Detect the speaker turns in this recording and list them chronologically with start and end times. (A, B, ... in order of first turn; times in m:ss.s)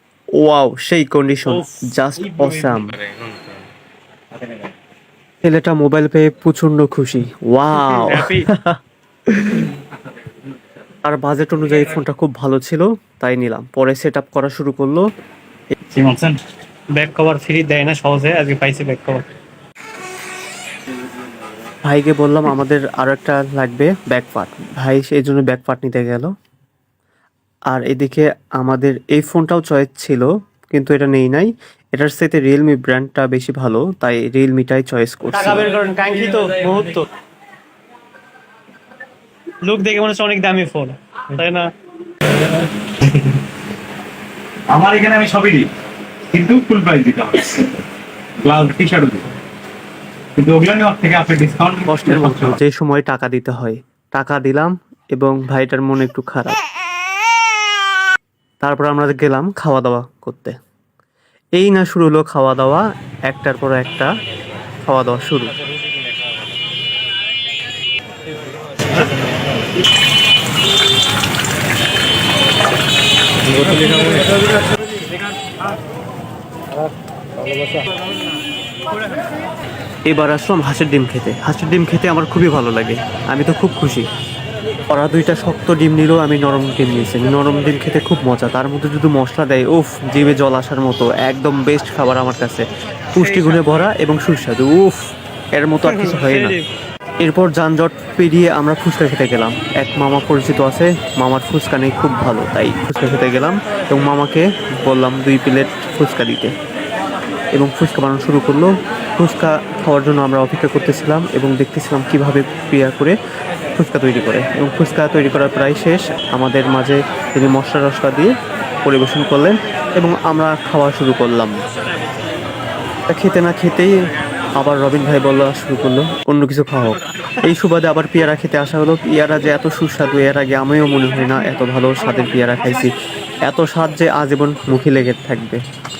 0:00.4-0:03.0 A
0:01.5-0:01.8 B
0:05.4-0:09.7 A
0:07.7-0:08.5 B
0:11.0-0:15.0 A
0:15.9-0:16.4 C
0:16.9-0:19.2 B
0:21.8-0:26.3 A
0:27.7-0:35.7 A
0:35.3-0:37.0 B
0:39.6-0:41.7 B
0:44.7-0:45.7 C
0:46.3-0:47.7 C
0:48.4-0:49.3 C
0:50.4-0:52.6 C
0:51.9-0:56.6 A
0:58.6-1:00.5 A
1:01.6-1:04.1 A
1:04.9-1:05.5 A
1:20.1-1:24.1 A
1:24.9-1:36.6 A
1:35.8-1:36.6 B
1:37.2-1:46.5 A
1:47.6-1:53.2 A
1:53.8-1:58.3 A
1:58.8-2:01.6 A
2:03.1-2:03.9 A
2:04.6-2:12.9 A
2:13.4-2:15.6 A